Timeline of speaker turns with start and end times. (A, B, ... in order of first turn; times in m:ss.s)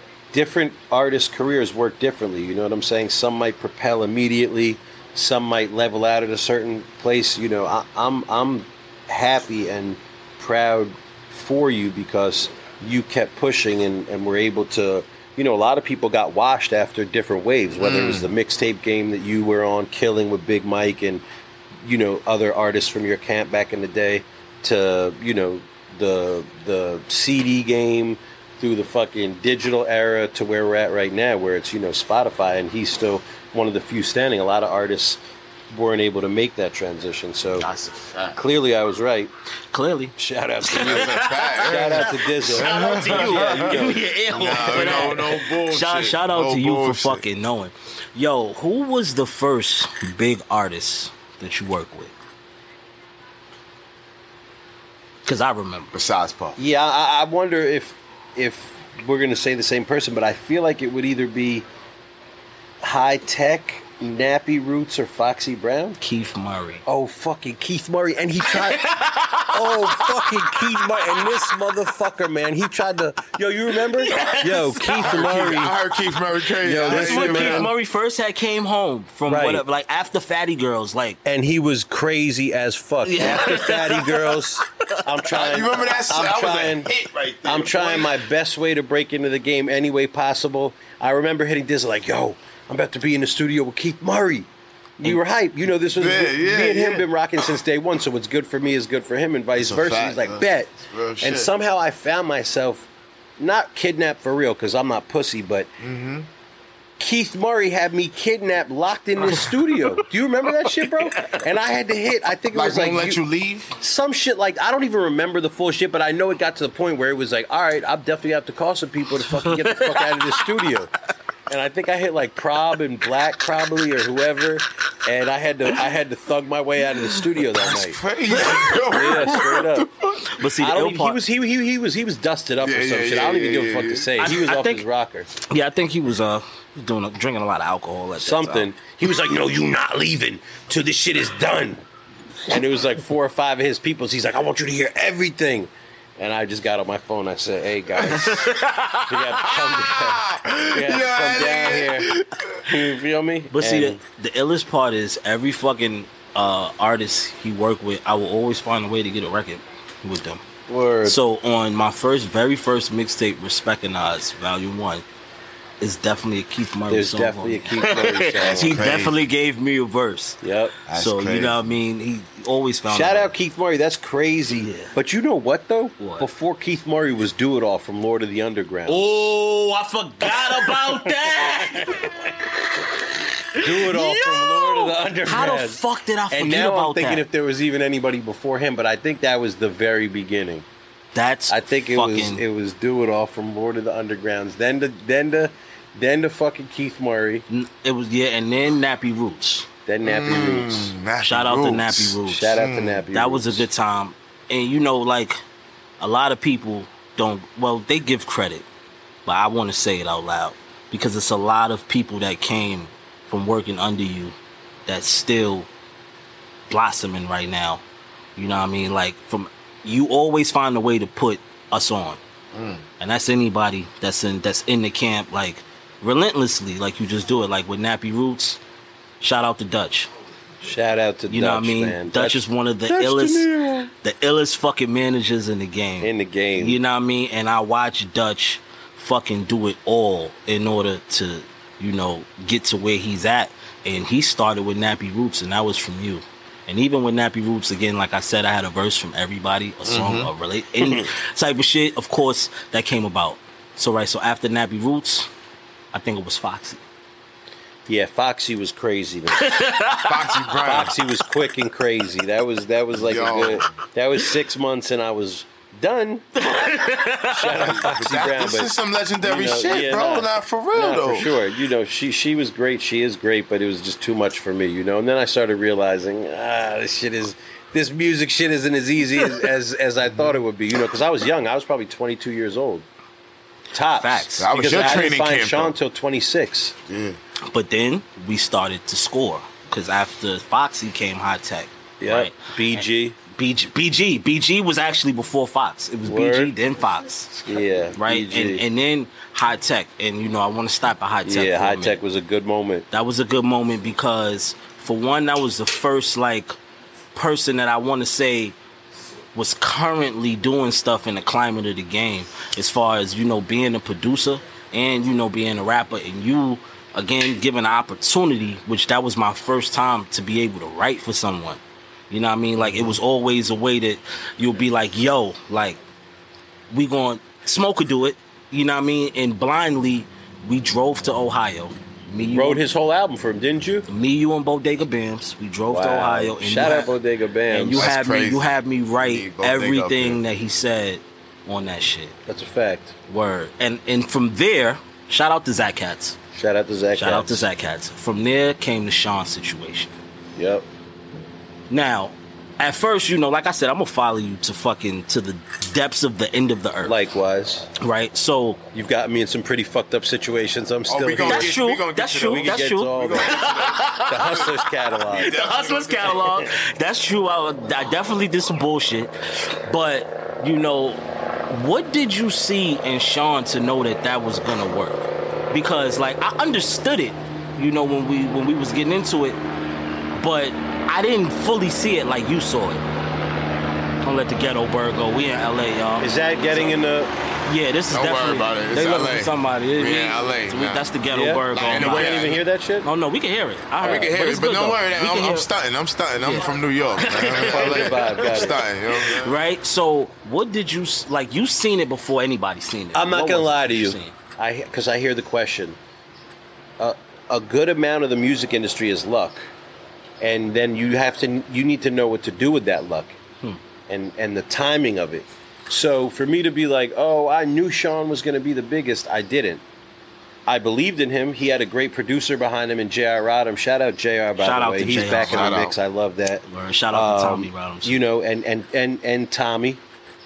0:00.3-0:21.2 A
0:17.8-0:18.3 B
0:21.8-0:37.7 A
0:37.6-0:38.4 B
0:38.3-0:39.3 A
0:39.7-0:52.1 C
0:40.2-0:44.0 A
0:40.8-0:47.2 B
0:44.6-0:45.2 A
0:55.2-0:55.9 C
0:55.9-0:56.6 B
0:56.6-1:01.6 A
1:02.8-1:06.0 A
1:06.0-1:06.8 C
1:06.9-1:08.9 A
1:08.5-1:11.5 C
1:09.5-1:15.8 A
1:14.0-1:15.4 C
1:14.9-1:17.7 B
1:16.6-1:17.7 A
1:16.9-1:21.2 C
1:19.3-1:19.6 A
1:21.2-1:26.9 A
1:23.0-1:24.4 C
1:25.3-1:28.2 B
1:27.4-1:34.5 A
1:35.0-1:45.7 A
1:35.8-1:37.1 B
1:39.6-1:41.5 B
1:45.8-1:46.3 B
1:47.0-1:53.2 A
1:52.5-1:53.8 B
1:53.8-2:00.9 A
1:59.3-2:00.5 C
2:01.5-2:09.9 A
2:07.6-2:10.4 B
2:10.2-2:11.2 C
2:10.6-2:15.3 A
2:12.6-2:14.3 B
2:14.2-2:14.8 C
2:15.4-2:18.7 C
2:18.2-2:21.8 A
2:22.5-2:28.6 A
2:28.1-2:29.5 C
2:29.1-2:32.1 A
2:29.9-2:32.7 B
2:32.6-2:34.0 A
2:33.5-2:40.4 C
2:40.7-2:41.2 A
2:41.0-2:45.0 C
2:45.8-2:53.3 C
2:46.9-2:48.8 A
2:48.4-2:49.2 B
2:50.4-2:50.8 A
2:50.9-2:51.7 B
2:52.9-2:59.3 A
2:54.5-2:54.9 C
2:56.0-2:56.3 C
2:58.9-3:02.4 C
3:00.2-3:02.3 A
3:03.5-3:07.3 C
3:03.5-3:10.6 A
3:11.2-3:12.4 C
3:11.5-3:17.4 A
3:17.5-3:19.7 C
3:19.9-3:20.9 A
3:20.0-3:23.0 B
3:21.2-3:22.6 C
3:22.2-3:23.7 A
3:23.1-3:25.4 C
3:26.0-3:28.7 C
3:29.3-3:35.7 C
3:36.7-3:37.8 C
3:38.4-3:42.2 C
3:42.5-3:42.8 B
3:43.0-3:48.6 C
3:49.2-3:50.1 C
3:50.6-3:53.9 A
3:51.3-3:53.5 C
3:54.0-4:15.3 C
3:56.0-3:56.8 A
4:09.9-4:10.3 B
4:10.8-4:11.1 A
4:15.9-4:16.8 C
4:17.9-4:19.6 A
4:19.4-4:20.6 C
4:20.0-4:21.0 B
4:20.6-4:26.4 A
4:22.9-4:23.7 B
4:26.4-4:27.7 C
4:27.3-4:42.8 A
4:27.5-4:31.3 B
4:43.7-4:46.8 A
4:43.9-4:44.5 C
4:44.4-4:45.8 B
4:46.9-4:47.2 B
4:47.4-5:02.0 C
4:52.0-4:53.2 A
4:56.0-4:56.5 A
4:57.5-4:58.7 A
5:01.2-5:02.9 A
5:02.9-5:06.6 C
5:07.2-5:08.6 C
5:09.3-5:25.8 C
5:26.7-5:32.6 C
5:32.2-5:33.9 A
5:33.9-5:37.0 C
5:35.7-5:37.9 A
5:37.5-5:42.2 C
5:37.8-5:40.2 B
5:42.3-5:42.9 A
5:43.1-5:46.2 C
5:46.4-5:47.4 A
5:47.0-5:50.0 C
5:50.4-5:50.7 A
5:51.7-5:57.0 C
5:56.8-5:57.7 A
5:57.8-5:58.6 C
5:58.7-6:01.6 A
6:00.9-6:06.4 B
6:01.2-6:04.4 C
6:02.3-6:03.5 A
6:04.1-6:05.4 A
6:05.1-6:19.4 C
6:20.2-6:22.8 C
6:24.0-6:26.8 C
6:26.0-6:27.1 A
6:27.5-6:35.5 C
6:27.9-6:30.9 B
6:31.1-6:32.9 A
6:31.5-6:32.4 B
6:33.8-6:39.4 B
6:33.8-6:34.1 A
6:36.2-6:44.2 C
6:37.4-6:38.6 A
6:42.9-6:45.8 A
6:46.8-6:49.5 A
6:50.2-6:53.2 A
6:53.9-6:59.6 A
7:00.5-7:09.8 A
7:04.4-7:05.7 C
7:05.1-7:05.8 B
7:06.5-7:08.0 C